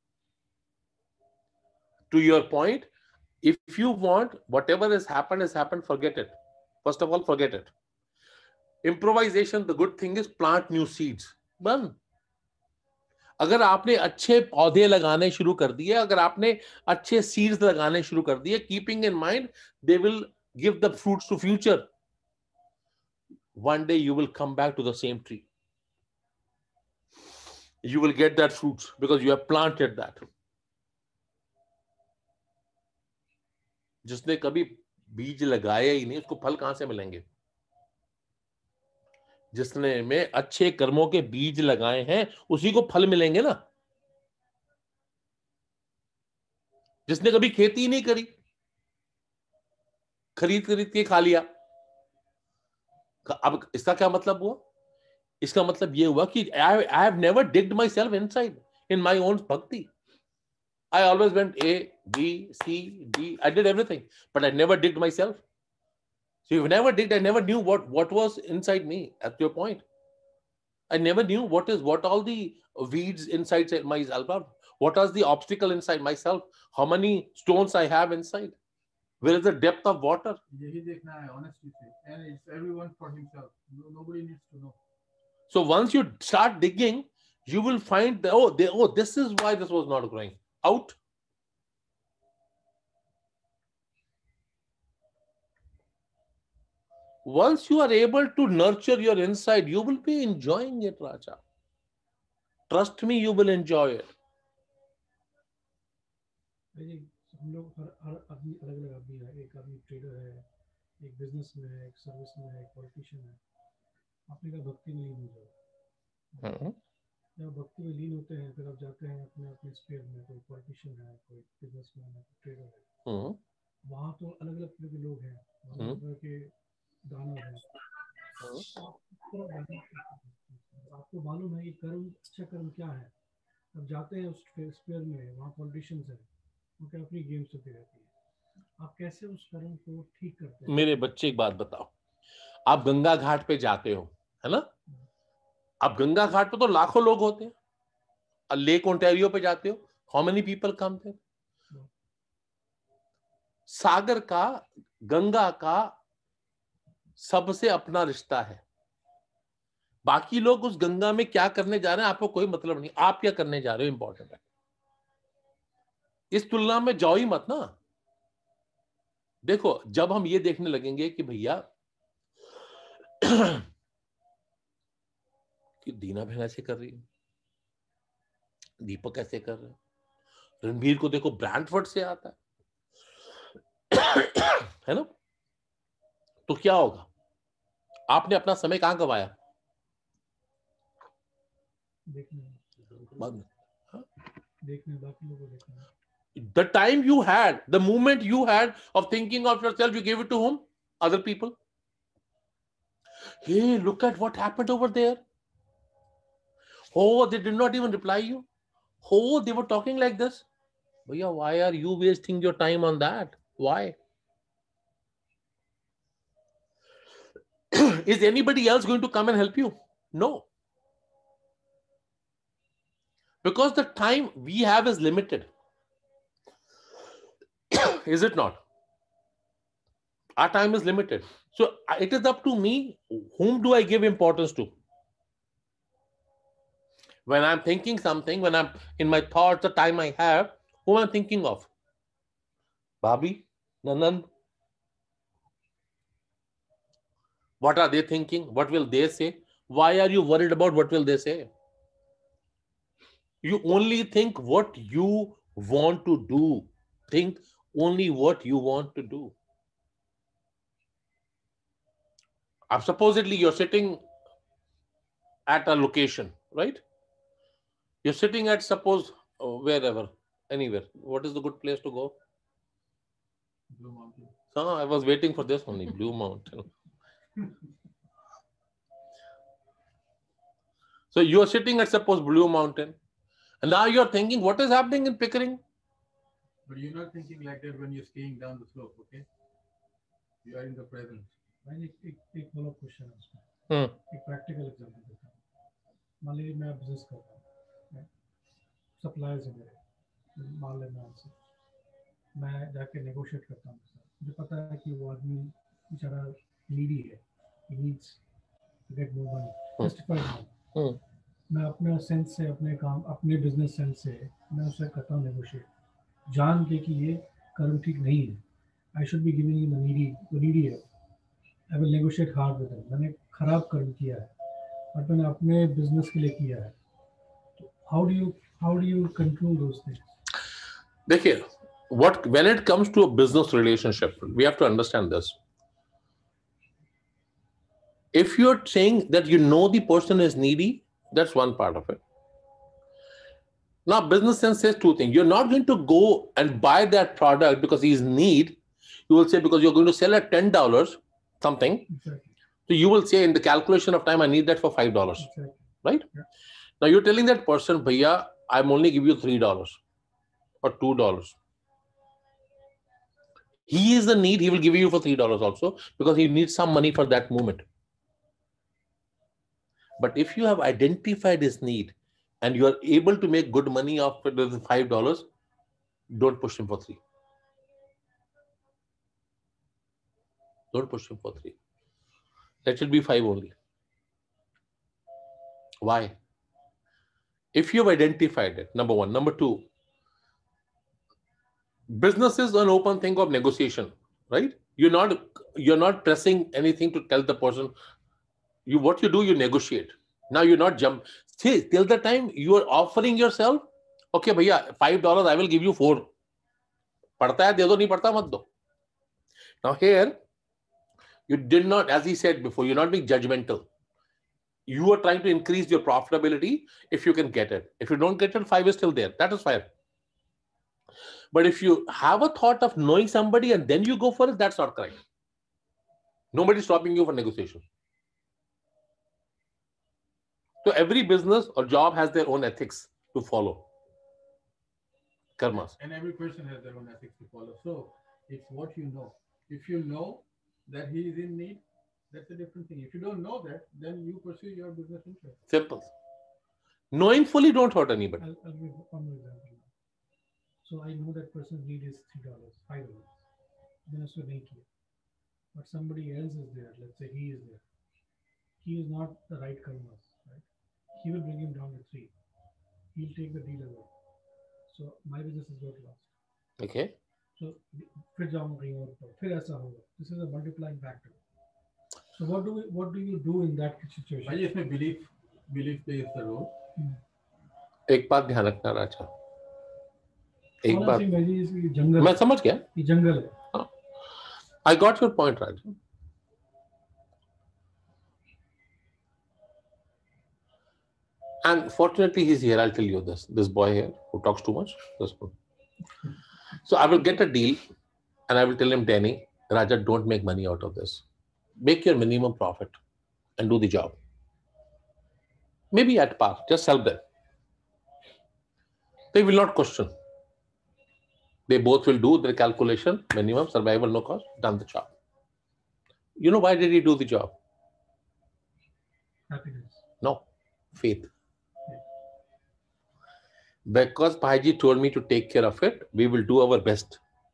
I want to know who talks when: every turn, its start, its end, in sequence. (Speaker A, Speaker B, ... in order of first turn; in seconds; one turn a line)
Speaker A: 2.1-2.9
Speaker A: 3.4-7.7
Speaker A: 8.8-11.9
Speaker A: 13.4-21.9
Speaker A: 23.6-25.5
Speaker A: 27.8-30.2
Speaker A: 34.0-37.2
Speaker A: 39.5-43.6
Speaker A: 47.1-48.3
Speaker A: 50.4-51.5
Speaker A: 53.3-54.6
Speaker A: 55.4-59.9
Speaker A: 60.9-65.4
Speaker A: 66.5-69.8
Speaker A: 70.9-78.6
Speaker A: 79.2-80.4
Speaker B: 80.5-84.8
Speaker A: 85.5-91.0
Speaker A: 97.2-101.4
Speaker A: 102.7-104.1
Speaker C: 106.8-110.5
Speaker C: 111.0-113.4
Speaker C: 114.3-115.5
Speaker C: 116.3-116.6
Speaker A: 116.4-116.8
Speaker C: 117.4-122.9
Speaker A: 123.1-123.4
Speaker C: 123.8-126.5
Speaker A: 125.8-126.0
Speaker C: 127.0-127.7
Speaker C: 128.4-133.1
Speaker A: 128.4-128.7
Speaker C: 133.7-136.3
Speaker C: 136.8-138.1
Speaker C: 138.8-140.9
Speaker A: 140.7-141.9
Speaker A: 142.7-144.7
Speaker A: 145.8-147.5
Speaker A: 148.5-151.2
Speaker A: 153.7-155.9
Speaker A: 157.2-158.6
Speaker A: 160.1-164.4
Speaker A: 166.3-167.7
Speaker A: 169.4-171.7
Speaker A: 173.2-173.7
Speaker A: 175.8-177.0
Speaker A: 178.8-179.8
Speaker A: 180.6-182.4
Speaker A: 183.9-185.1
Speaker A: 186.5-187.1
Speaker A: 188.1-189.3
Speaker C: 192.1-192.7
Speaker A: 193.2-194.1
Speaker C: 194.6-195.9
Speaker A: 196.4-201.6
Speaker A: 203.4-205.2
Speaker A: 206.9-208.5
Speaker A: 209.0-210.5
Speaker A: 211.1-214.0
Speaker A: 217.7-220.5
Speaker A: 223.4-225.5
Speaker A: 227.7-228.6
Speaker A: 230.4-234.7
Speaker A: 237.3-241.7
Speaker A: 243.0-244.3
Speaker A: 247.6-251.5
Speaker A: 253.4-259.3
Speaker A: 262.7-264.0
Speaker A: 265.5-266.8
Speaker A: 268.0-272.2
Speaker B: 273.7-274.4
Speaker A: 274.5-276.7
Speaker A: 281.1-283.0
Speaker A: 283.6-285.6
Speaker B: 286.7-289.3
Speaker B: 290.4-291.4
Speaker C: 291.6-293.5
Speaker A: 293.7-294.0
Speaker C: 294.1-295.4
Speaker C: 296.2-298.1
Speaker C: 299.0-299.8
Speaker C: 300.4-301.3
Speaker C: 302.4-308.2
Speaker C: 308.9-310.5
Speaker C: 311.5-315.7
Speaker C: 316.3-318.4
Speaker C: 318.9-320.8
Speaker C: 321.7-324.3
Speaker C: 324.9-326.8
Speaker C: 327.6-330.0
Speaker A: 331.1-335.4
Speaker A: 338.1-342.0
Speaker A: 343.9-351.9
Speaker C: 351.9-352.3
Speaker A: 352.7-355.3
Speaker C: 355.2-356.2
Speaker A: 356.8-359.8
Speaker A: 360.6-361.4
Speaker A: 363.7-367.6
Speaker A: 370.0-375.3
Speaker A: 376.1-377.0
Speaker A: 380.7-381.6
Speaker A: 382.6-383.6
Speaker A: 385.8-386.1
Speaker A: 387.5-389.7
Speaker A: 391.9-397.7
Speaker A: 398.7-406.1
Speaker A: 407.2-408.5
Speaker A: 409.6-410.2
Speaker A: 411.3-413.7
Speaker A: 414.7-419.7
Speaker A: 421.3-425.0
Speaker A: 426.3-427.6
Speaker A: 430.6-433.7
Speaker A: 435.4-435.8
Speaker B: 435.5-445.4
Speaker A: 445.5-445.9
Speaker A: 446.9-448.3
Speaker C: 448.2-449.7
Speaker C: 450.6-453.2
Speaker C: 453.9-454.7
Speaker C: 455.5-457.6
Speaker C: 458.6-462.1
Speaker C: 462.9-463.9
Speaker C: 464.7-466.1
Speaker A: 466.6-466.9
Speaker C: 467.4-471.2
Speaker C: 472.1-474.4
Speaker B: 474.2-476.5
Speaker A: 477.9-479.1
Speaker A: 480.6-481.1
Speaker C: 480.6-482.2
Speaker A: 482.0-482.6
Speaker C: 482.7-483.4
Speaker A: 484.6-485.8
Speaker A: 491.4-495.3
Speaker A: 496.6-497.6
Speaker A: 498.3-501.0
Speaker A: 501.6-502.8
Speaker A: 503.4-504.0
Speaker A: 505.7-507.0
Speaker A: 509.1-509.9
Speaker A: 511.5-514.9
Speaker A: 516.2-517.3
Speaker C: 519.3-519.8
Speaker A: 520.0-521.1
Speaker A: 523.7-527.0